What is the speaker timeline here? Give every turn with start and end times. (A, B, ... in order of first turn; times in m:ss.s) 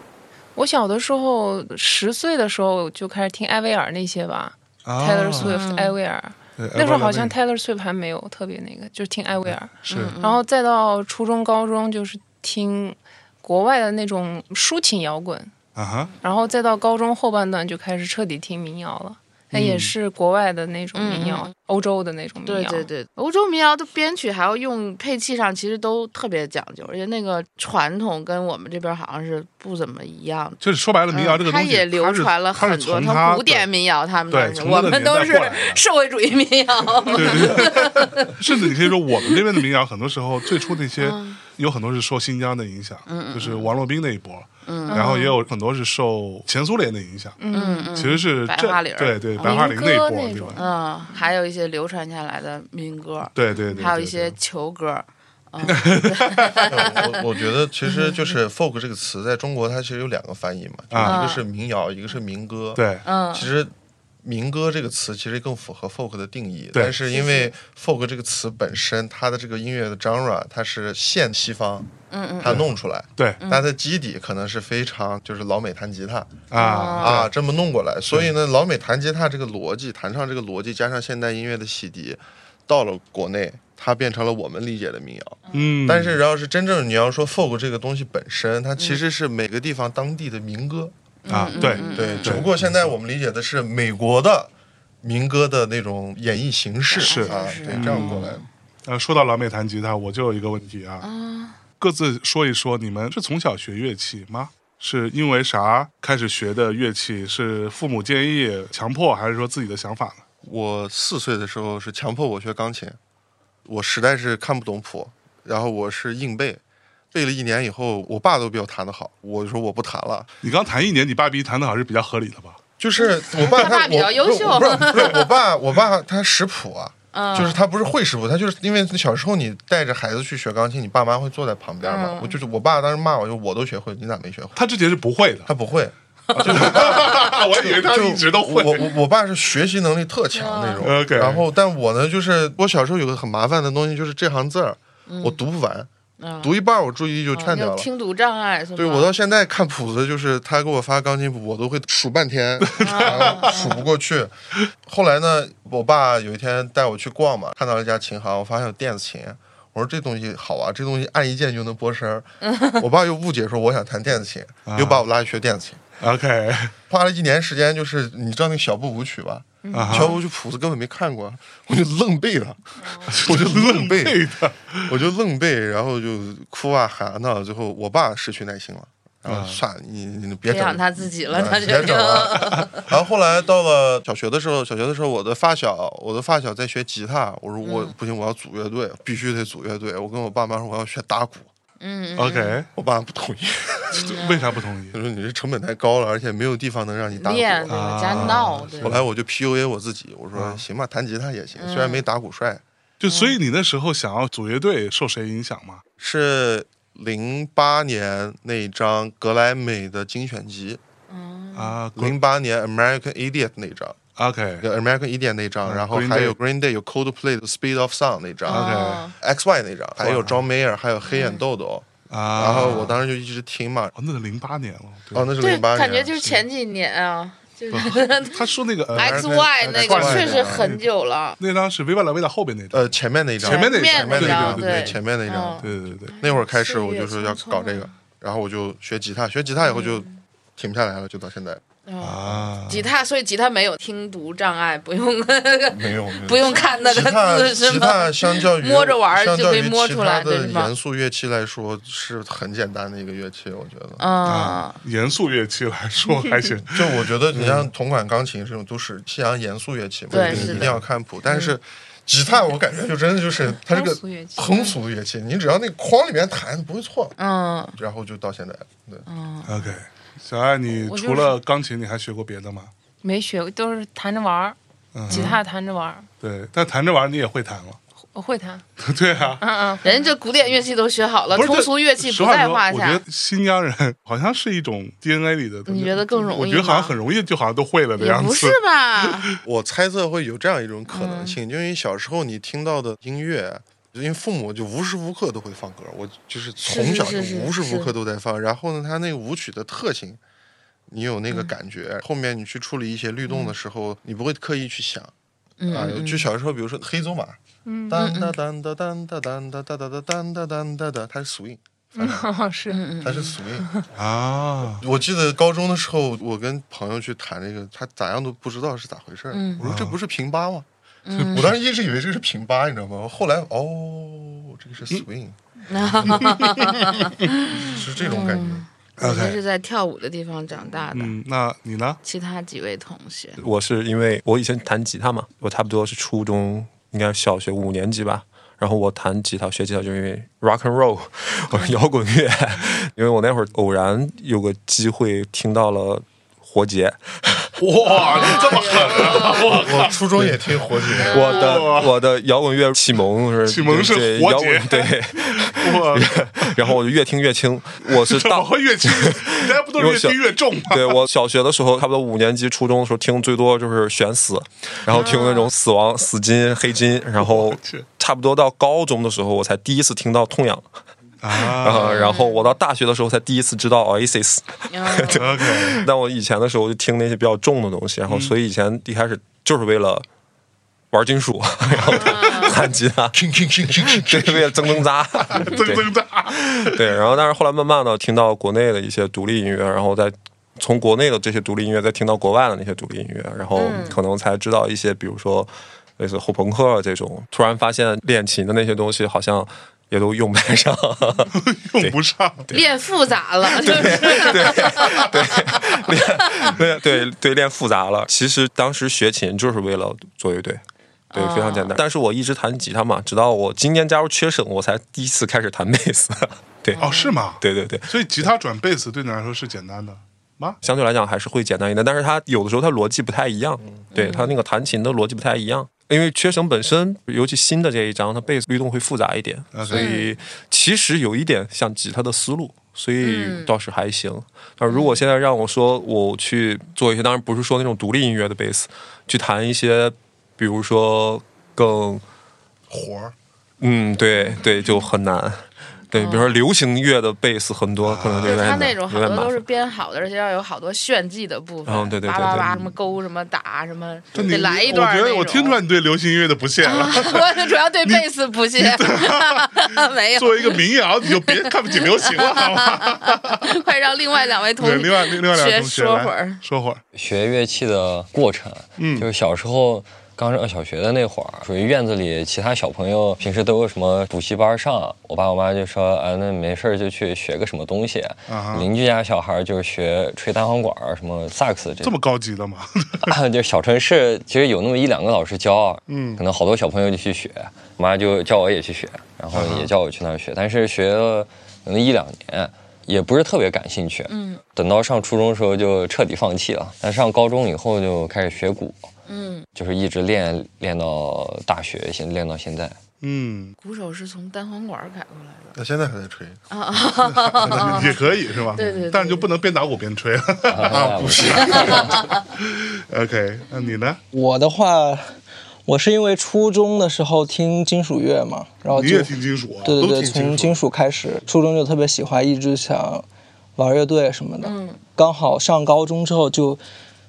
0:00.6-0:15.5 A
0:04.8-0:05.5 B
0:05.4-0:06.0 C
0:06.6-0:07.3 B
0:09.5-0:10.2 B
0:09.9-0:10.4 C
0:15.8-0:16.1 B
0:16.2-0:22.9 A
0:19.5-0:19.9 B
0:20.9-0:21.5 C
0:22.4-0:39.6 C
0:30.6-0:33.7 B
0:34.3-0:35.8 B
0:37.1-0:47.4 B
0:41.0-0:41.4 C
0:43.1-0:43.7 C
0:44.6-0:45.3 C
0:44.9-0:45.3 A
0:47.4-0:48.2 A
0:47.5-0:49.7 C
0:47.9-0:50.6 B
0:49.4-0:51.2 A
0:50.5-0:57.2 C
0:53.3-0:54.4 B
0:55.6-0:56.7 B
0:56.6-1:03.7 D
0:57.8-0:58.2 C
1:00.9-1:01.2 B
1:01.0-1:01.4 C
1:02.7-1:03.0 B
1:03.0-1:03.5 C
1:04.2-1:30.9 D
1:07.1-1:07.5 C
1:12.1-1:12.6 C
1:12.4-1:13.4 B
1:13.4-1:13.6 C
1:16.5-1:17.3 B
1:16.5-1:17.2 C
1:25.5-1:26.2 B
1:31.2-1:32.4 C
1:31.3-1:32.9 B
1:31.6-1:38.4 D
1:31.6-1:32.0 A
1:36.9-1:38.4 C
1:37.0-1:38.3 B
1:38.8-1:41.1 B
1:41.0-1:41.6 C
1:41.8-1:50.2 B
1:50.4-1:53.0 D
1:53.6-1:56.6 D
1:57.1-2:00.3 D
2:00.4-2:02.6 B
2:02.8-2:14.6 D
2:03.0-2:05.3 C
2:07.1-2:07.6 C
2:11.8-2:12.4 C
2:14.6-2:15.5 B
2:15.4-2:25.9 D
2:16.3-2:18.9 B
2:20.3-2:20.9 C
2:20.8-2:21.4 B
2:25.1-2:25.4 C
2:26.2-2:26.5 C
2:26.4-2:27.9 D
2:27.3-2:29.1 C
2:28.8-2:45.8 D
2:32.7-2:33.6 B
2:32.8-2:33.8 C
2:42.5-2:42.8 C
2:44.7-2:45.0 B
2:46.0-2:46.7 B
2:46.9-3:11.5 D
2:49.6-2:50.1 A
2:49.7-2:50.1 B
2:52.8-2:53.2 A
2:53.1-2:54.9 B
2:59.2-2:59.6 B
3:00.5-3:02.8 C
3:02.4-3:02.7 B
3:07.6-3:07.9 C
3:11.8-3:12.6 C
3:12.2-3:12.7 B
3:12.7-3:14.2 D
3:13.9-3:14.5 C
3:14.0-3:15.0 B
3:14.9-3:22.6 D
3:17.1-3:18.9 C
3:17.7-3:19.0 B
3:20.3-3:20.6 B
3:21.6-3:22.0 C
3:23.0-3:25.8 B
3:23.1-3:23.4 C
3:26.0-3:30.8 D
3:31.1-3:31.8 C
3:31.5-3:32.1 B
3:32.0-3:34.0 D
3:34.2-3:34.6 B
3:34.6-3:43.9 D
3:35.6-3:36.4 B
3:38.5-3:39.1 C
3:38.5-3:39.0 B
3:40.0-3:40.4 B
3:41.0-3:41.4 C
3:42.1-3:43.0 B
3:42.5-3:42.9 C
3:44.0-3:45.3 B
3:45.1-3:46.4 D
3:45.4-3:51.4 C
3:47.7-3:50.9 B
3:48.9-3:50.7 D
3:51.4-3:55.0 B
3:52.7-4:01.6 D
3:53.4-3:57.9 C
3:55.6-3:56.1 B
3:59.6-4:00.2 C
4:01.8-4:10.7 C
4:02.0-4:02.9 B
4:05.7-4:14.0 D
4:14.0-4:14.8 C
4:14.2-4:17.6 B
4:16.7-4:27.1 D
4:20.1-4:20.7 C
4:20.2-4:20.8 B
4:21.2-4:21.5 C
4:23.6-4:24.7 A
4:27.2-4:27.8 C
4:27.8-4:29.0 D
4:29.0-4:29.7 C
4:29.4-4:32.7 B
4:30.8-4:31.4 A
4:33.0-4:34.6 A
4:34.9-4:35.4 B
4:35.1-4:36.1 A
4:35.1-4:35.4 C
4:36.2-4:37.8 B
4:38.1-4:38.6 A
4:38.8-4:39.4 B
4:39.4-4:40.1 A
4:39.8-4:43.0 C
4:41.3-4:49.3 B
4:45.7-4:46.9 C
4:48.0-4:49.3 C
4:49.4-5:00.2 D
4:50.9-4:51.4 C
4:56.6-4:57.9 C
5:00.9-5:05.1 D
5:03.3-5:03.5 C
5:05.6-5:06.3 C
5:05.7-5:12.2 D
5:07.6-5:08.0 A
5:08.0-5:08.3 C
5:12.0-5:12.8 A
5:12.7-5:13.4 C
5:13.0-5:13.7 D
5:13.6-5:13.8 A
5:13.9-5:14.8 B
5:14.8-5:20.6 D
5:19.3-5:19.6 C
5:19.6-5:20.0 B
5:21.0-5:21.5 C
5:21.1-5:21.5 B
5:21.3-5:26.3 D
5:25.7-5:31.1 C
5:26.1-5:27.1 B
5:27.5-5:28.6 D
5:29.0-5:29.4 B
5:30.9-5:32.0 B
5:32.0-5:33.4 C
5:33.4-5:47.5 E
5:47.6-5:52.0 B
5:47.8-5:49.9 C
5:49.4-5:51.4 D
5:51.1-5:51.7 C
5:51.1-6:10.7 E
5:53.4-5:56.8 B
5:57.8-6:01.1 B
6:04.9-6:05.5 C
6:07.2-6:07.8 B
6:11.2-6:12.0 B
6:11.3-6:20.0 E
6:11.7-6:12.5 C
6:14.7-6:15.3 C
6:15.1-6:15.8 B
6:18.1-6:18.4 B
6:20.9-6:23.2 E
6:21.9-6:22.6 C
6:23.1-6:24.9 D
6:23.8-6:42.6 E
6:25.3-6:27.0 B
6:33.5-6:34.0 C
6:41.3-6:42.5 B
6:42.5-6:46.6 C
6:43.4-6:50.6 E
6:51.1-6:51.8 C
6:51.1-6:58.3 E
6:56.7-6:57.2 C
6:56.8-7:00.6 B
7:00.6-7:22.0 E
7:03.9-7:04.3 C
7:09.5-7:09.9 B
7:09.7-7:10.1 C
7:13.0-7:13.5 C
7:14.7-7:15.0 C
7:22.7-7:23.1 D
7:23.6-7:29.4 E
7:26.0-7:26.4 C
7:27.8-7:28.7 B
7:28.2-7:35.6 C
7:31.6-7:32.7 E
7:34.1-7:38.0 B
7:36.6-7:46.4 C
7:38.6-7:43.5 B
7:44.6-7:46.8 B
7:46.9-8:02.0 F
7:48.8-7:49.1 B
7:58.3-7:58.7 B
8:01.8-8:03.2 B
8:03.1-8:18.9 F
8:05.9-8:06.2 B
8:09.3-8:09.7 B
8:14.1-8:14.4 C
8:19.1-8:19.4 C
8:19.5-8:22.8 F
8:23.0-8:23.5 B
8:23.6-8:25.6 C
8:25.5-8:26.4 D
8:26.5-8:28.0 C
8:27.0-8:34.0 B
8:28.5-8:29.3 C
8:30.5-8:32.0 F
8:30.7-8:31.9 D
8:34.1-8:35.1 G
8:35.6-8:43.0 G
8:38.7-8:39.8 B
8:39.8-8:40.6 D
8:43.6-8:46.6 G
8:44.4-8:44.8 C